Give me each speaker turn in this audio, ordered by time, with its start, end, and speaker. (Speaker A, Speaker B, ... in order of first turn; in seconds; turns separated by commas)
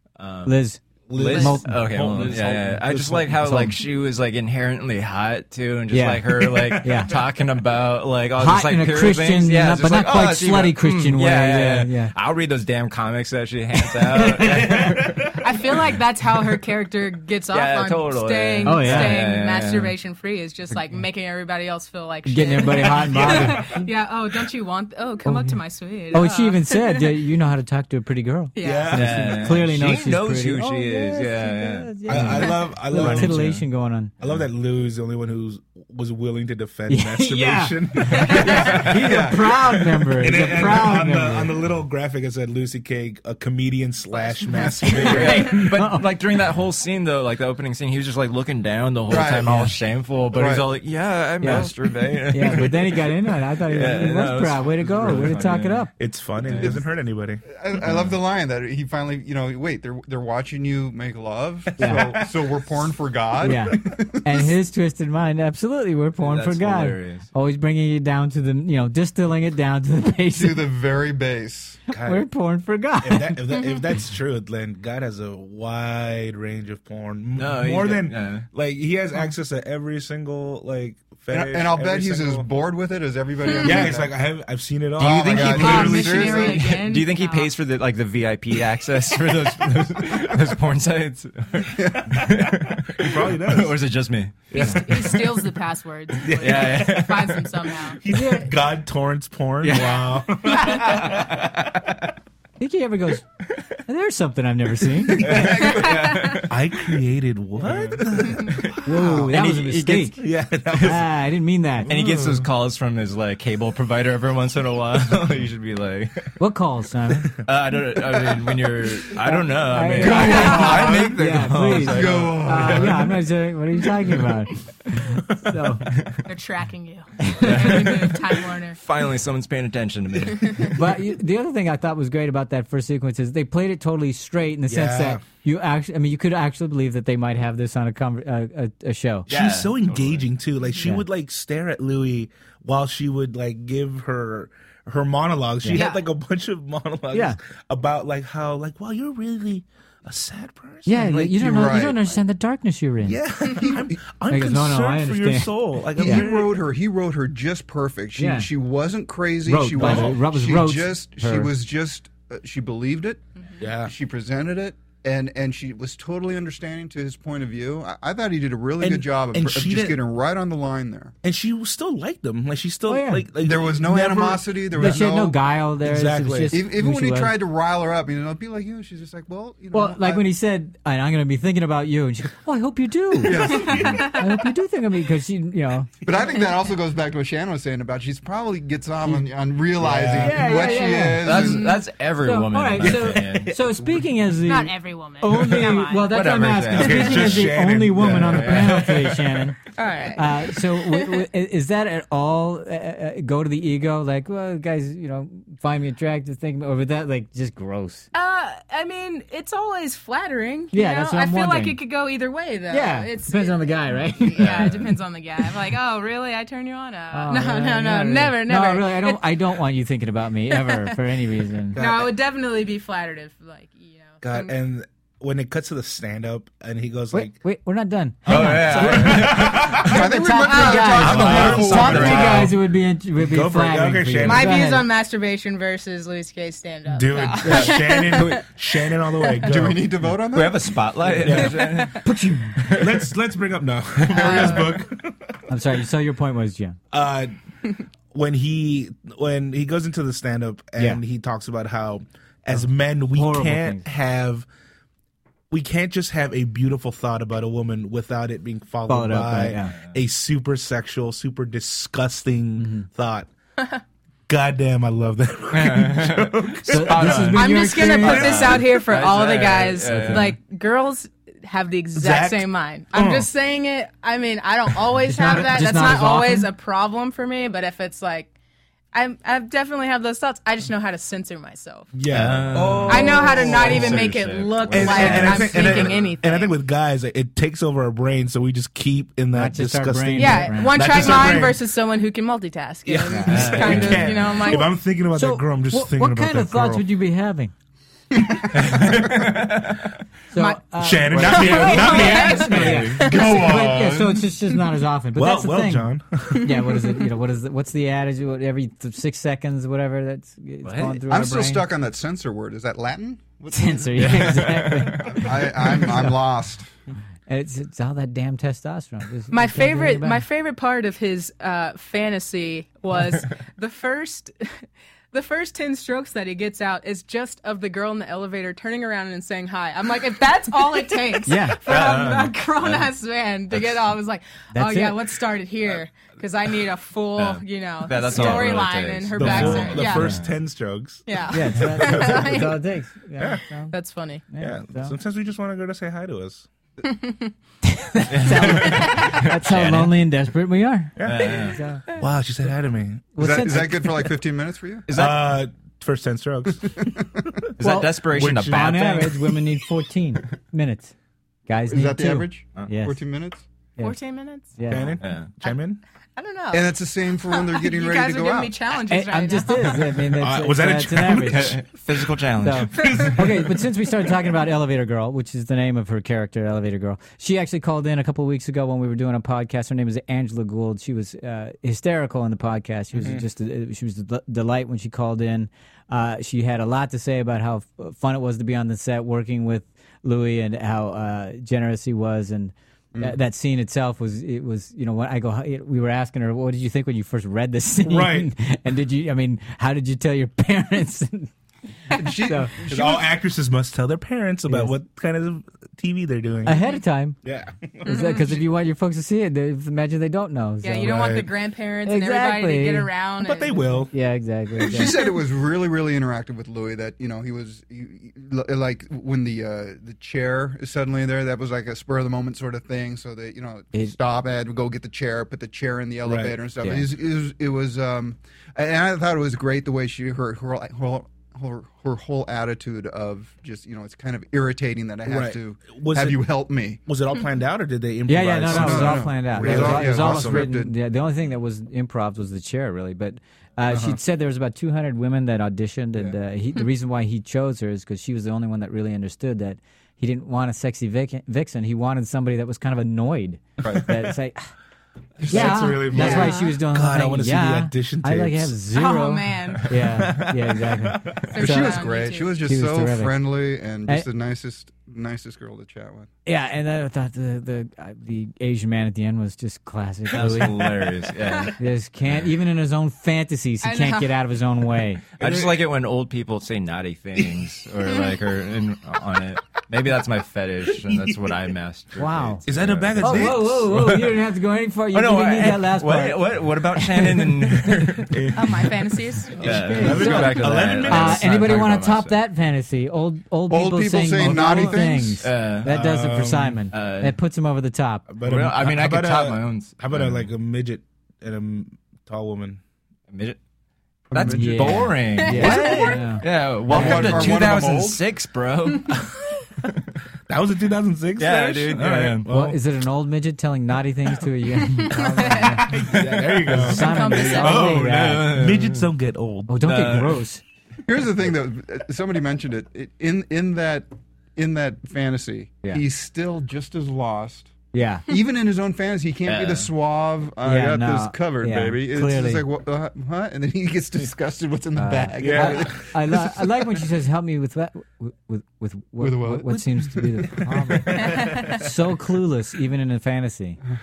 Speaker A: 0.2-0.5, Speaker B: 0.4-0.8, Speaker C: 1.1-3.7, Speaker A: 1.1-15.0, Speaker B: 1.4-1.7, Speaker B: 5.9-7.1, Speaker C: 6.5-7.2, Speaker B: 8.4-12.1, Speaker C: 14.1-15.3, Speaker D: 15.4-27.1, Speaker A: 17.5-19.9, Speaker B: 18.6-19.2, Speaker B: 22.3-23.7, Speaker C: 22.9-23.6, Speaker B: 25.2-25.6, Speaker B: 26.1-34.1, Speaker D: 28.5-28.9, Speaker C: 28.6-29.6, Speaker A: 28.9-33.6, Speaker C: 32.1-33.4, Speaker C: 34.2-39.4, Speaker B: 36.9-41.6, Speaker A: 38.5-39.0, Speaker C: 40.2-45.6, Speaker D: 44.2-45.2, Speaker A: 44.9-53.1, Speaker B: 45.0-46.1, Speaker E: 49.1-49.8, Speaker E: 50.3-50.6, Speaker B: 51.4-55.9, Speaker A: 53.7-55.9, Speaker C: 56.0-57.4, Speaker A: 56.4-56.8, Speaker E: 57.5-64.5, Speaker A: 57.8-58.1, Speaker C: 61.8-62.4, Speaker B: 61.8-62.1, Speaker B: 63.4-70.6, Speaker A: 66.2-67.3, Speaker E: 70.3-71.8, Speaker C: 71.9-72.2, Speaker B: 71.9-73.3, Speaker C: 73.0-82.5, Speaker A: 77.3-78.5, Speaker E: 81.3-84.2, Speaker C: 83.6-86.5, Speaker E: 85.0-86.8, Speaker D: 85.2-87.5, Speaker A: 86.2-95.5, Speaker E: 91.7-92.3, Speaker C: 92.9-93.8, Speaker D: 94.5-98.0, Speaker C: 96.2-96.9, Speaker A: 96.4-97.5, Speaker C: 98.0-101.7, Speaker B: 98.1-98.5, Speaker A: 100.7-101.3, Speaker B: 102.6-103.2, Speaker B: 103.9-105.6, Speaker A: 105.2-106.5, Speaker E: 105.3-105.7, Speaker D: 105.6-106.4, Speaker C: 106.5-108.6, Speaker A: 107.6-111.0, Speaker B: 108.8-110.2, Speaker E: 109.0-109.3, Speaker C: 110.2-111.0, Speaker B: 110.7-111.9, Speaker C: 111.8-112.5, Speaker A: 111.9-116.2, Speaker C: 115.1-115.4, Speaker B: 116.4-117.3, Speaker A: 117.4-122.4, Speaker B: 119.3-125.9, Speaker E: 120.0-123.2, Speaker C: 120.0-121.0, Speaker D: 120.1-120.8, Speaker C: 122.2-122.9, Speaker D: 126.3-128.8, Speaker B: 127.2-127.7, Speaker A: 127.4-130.7, Speaker D: 130.4-130.7, Speaker B: 130.7-139.3, Speaker C: 134.7-135.2, Speaker C: 139.3-151.0, Speaker A: 139.3-140.3, Speaker D: 145.7-146.1, Speaker B: 150.8-153.2, Speaker E: 150.9-152.2, Speaker C: 153.0-156.6, Speaker E: 153.6-153.9, Speaker B: 154.3-156.2, Speaker E: 156.0-163.2, Speaker B: 158.2-158.5, Speaker B: 159.4-161.5, Speaker C: 159.8-160.2, Speaker C: 163.6-163.9, Speaker E: 163.8-171.1, Speaker C: 168.8-170.0, Speaker C: 171.2-176.6, Speaker B: 172.9-173.2, Speaker E: 173.4-175.3, Speaker B: 174.7-177.3, Speaker E: 176.5-180.3, Speaker B: 179.7-185.9, Speaker E: 183.2-184.1, Speaker C: 183.2-184.1, Speaker D: 183.7-184.2, Speaker E: 186.0-191.8, Speaker C: 189.8-190.7, Speaker B: 190.2-191.6, Speaker A: 191.2-193.5, Speaker B: 192.2-199.6, Speaker C: 192.8-194.1, Speaker D: 194.4-196.2, Speaker A: 196.1-198.9, Speaker C: 196.7-199.1, Speaker D: 199.7-201.2, Speaker B: 200.2-208.1, Speaker D: 208.1-219.2, Speaker B: 210.7-211.8, Speaker B: 212.7-214.9, Speaker A: 214.4-214.8, Speaker B: 217.1-221.8, Speaker C: 221.7-222.1, Speaker D: 221.7-224.5, Speaker C: 224.2-227.3, Speaker B: 227.1-234.8, Speaker C: 228.2-229.9, Speaker A: 228.3-229.8, Speaker E: 229.8-232.5, Speaker D: 230.4-231.1, Speaker A: 231.0-232.5, Speaker C: 231.0-232.6, Speaker C: 233.2-234.5, Speaker D: 234.2-238.5, Speaker C: 236.9-239.9, Speaker D: 239.2-239.5, Speaker E: 239.4-241.2, Speaker A: 240.3-242.0, Speaker C: 241.2-241.7, Speaker D: 241.5-241.8, Speaker B: 242.0-242.8, Speaker C: 242.8-245.3, Speaker E: 244.1-244.8, Speaker D: 244.1-244.7, Speaker B: 245.5-246.8, Speaker C: 246.9-247.3, Speaker C: 248.1-254.5, Speaker B: 252.5-253.8, Speaker C: 255.5-263.3, Speaker B: 258.9-259.7, Speaker B: 262.6-262.9, Speaker C: 264.3-267.5, Speaker A: 265.5-270.3, Speaker B: 266.7-268.4, Speaker D: 267.3-278.3, Speaker C: 268.0-268.7, Speaker C: 271.9-273.3, Speaker B: 275.1-276.5, Speaker D: 278.9-281.9, Speaker C: 281.9-284.1, Speaker A: 282.1-286.0, Speaker D: 282.9-286.5, Speaker C: 284.7-291.6, Speaker B: 289.3-291.1, Speaker D: 290.2-294.7, Speaker C: 292.9-296.8, Speaker A: 293.2-294.4, Speaker B: 295.1-297.5, Speaker A: 298.5-299.9, Speaker B: 300.3-311.6, Speaker D: 300.4-303.5, Speaker C: 300.8-304.2, Speaker A: 301.2-303.1, Speaker C: 305.1-306.5, Speaker A: 310.6-311.0, Speaker E: 311.1-314.2, Speaker B: 313.5-316.2, Speaker A: 314.0-315.7, Speaker E: 315.1-316.7, Speaker B: 317.3-320.2, Speaker D: 319.3-340.2, Speaker B: 331.2-331.6, Speaker A: 331.7-332.9, Speaker A: 333.5-333.8, Speaker B: 334.5-335.0, Speaker A: 337.2-340.3, Speaker C: 338.1-338.6, Speaker C: 339.1-341.0, Speaker D: 341.1-342.6, Speaker B: 341.3-343.7, Speaker C: 341.6-342.4, Speaker D: 343.7-344.2, Speaker B: 344.3-344.9, Speaker C: 344.4-346.5, Speaker D: 346.8-347.3, Speaker B: 347.6-351.8, Speaker A: 348.1-349.9, Speaker D: 348.8-349.1, Speaker C: 351.0-353.7, Speaker A: 351.0-351.6, Speaker B: 353.1-354.1, Speaker E: 353.2-354.9, Speaker A: 354.9-355.2, Speaker C: 354.9-356.8, Speaker A: 357.6-359.2, Speaker B: 357.6-360.9, Speaker C: 358.1-359.0, Speaker B: 361.5-363.0, Speaker E: 361.7-363.4, Speaker D: 363.8-364.5, Speaker B: 364.6-365.0, Speaker C: 364.7-365.8, Speaker A: 365.0-365.3, Speaker D: 366.1-369.8, Speaker E: 366.5-368.5, Speaker B: 368.9-371.6, Speaker C: 370.2-373.6, Speaker A: 371.3-373.0, Speaker B: 372.4-401.3, Speaker C: 382.9-383.2, Speaker C: 397.8-398.3, Speaker E: 401.9-403.1, Speaker B: 402.2-402.5, Speaker C: 402.7-406.6, Speaker B: 404.5-404.7, Speaker B: 406.4-407.2, Speaker C: 407.2-408.3, Speaker B: 407.8-411.2, Speaker D: 407.9-408.2, Speaker D: 410.6-413.8, Speaker C: 410.8-411.3, Speaker B: 411.8-412.9, Speaker C: 413.2-413.9, Speaker B: 413.9-414.9, Speaker E: 414.6-436.8, Speaker C: 426.0-426.4, Speaker B: 426.6-426.9, Speaker C: 435.1-436.2, Speaker C: 436.8-440.5, Speaker B: 438.1-454.5, Speaker E: 438.5-440.7, Speaker C: 443.7-444.0, Speaker E: 453.6-453.9, Speaker E: 455.2-456.4, Speaker C: 455.2-458.5, Speaker B: 455.3-461.8, Speaker D: 456.1-456.5, Speaker D: 458.7-459.7, Speaker C: 459.9-461.2, Speaker D: 461.3-462.4, Speaker E: 461.4-466.1, Speaker B: 462.4-463.2, Speaker B: 466.2-470.7, Speaker A: 470.1-471.5, Speaker B: 471.6-475.0, Speaker D: 473.6-474.2, Speaker A: 475.2-483.8, Speaker C: 480.9-481.2, Speaker B: 482.0-482.4, Speaker C: 482.4-484.1, Speaker B: 483.0-486.2, Speaker A: 484.9-488.2, Speaker B: 487.0-487.7, Speaker C: 488.1-488.8, Speaker D: 488.3-489.4, Speaker C: 489.3-491.6, Speaker B: 489.4-498.1, Speaker A: 489.4-492.2, Speaker E: 493.5-495.2, Speaker A: 494.2-495.7, Speaker C: 495.6-496.6, Speaker A: 496.7-497.1, Speaker C: 498.1-502.6, Speaker A: 498.2-500.3, Speaker A: 503.1-503.4, Speaker A: 504.1-508.9, Speaker E: 504.1-505.5, Speaker B: 504.3-507.5, Speaker D: 505.2-506.1, Speaker E: 506.6-508.0, Speaker C: 510.3-512.6, Speaker A: 511.2-512.2, Speaker B: 512.3-515.7, Speaker D: 514.7-515.7, Speaker C: 515.7-519.7, Speaker A: 515.9-516.7, Speaker B: 516.5-518.3, Speaker D: 516.8-517.8, Speaker A: 517.2-518.9, Speaker B: 519.5-520.4, Speaker A: 519.6-520.1, Speaker E: 520.9-527.5, Speaker B: 527.7-528.0, Speaker E: 528.1-536.3, Speaker A: 529.2-529.7, Speaker B: 530.4-532.4, Speaker B: 534.8-543.6, Speaker C: 535.2-535.8, Speaker E: 539.0-539.6, Speaker C: 539.5-541.5, Speaker D: 541.0-541.5